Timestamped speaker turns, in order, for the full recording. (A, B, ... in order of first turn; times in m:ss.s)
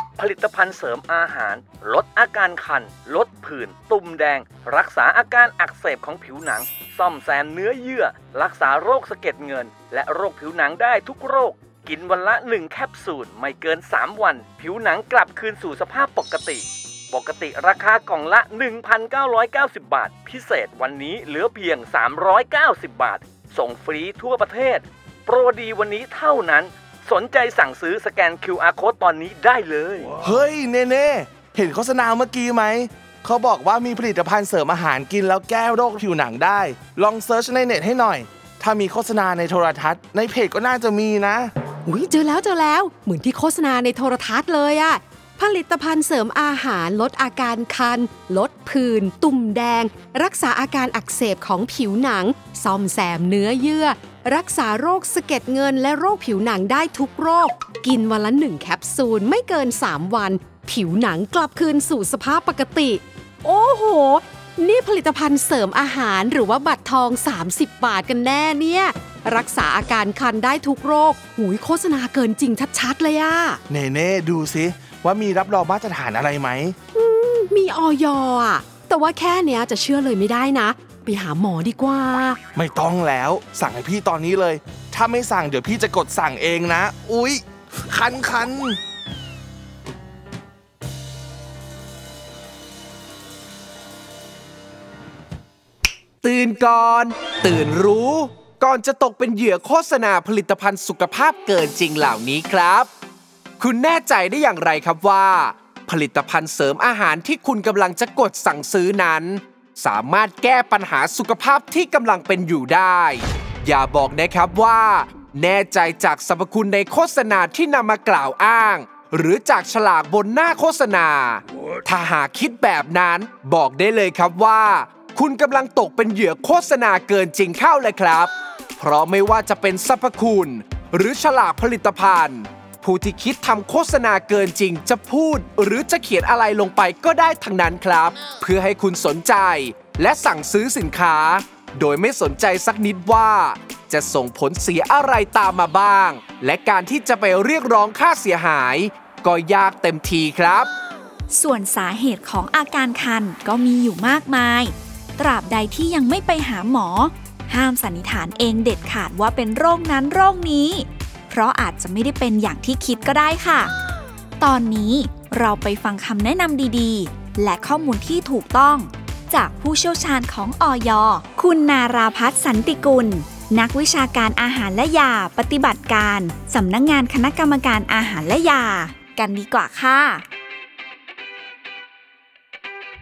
0:00.2-0:30.2 A
0:30.2-0:41.5 B
0:41.9-1:13.6 C
1:13.7-1:16.8 B
1:17.0-1:22.4 C
1:22.6-1:28.8 B
1:36.2-1:42.9 D
1:43.6-2:30.7 D
2:31.3-2:43.7 E
2:44.4-3:00.2 E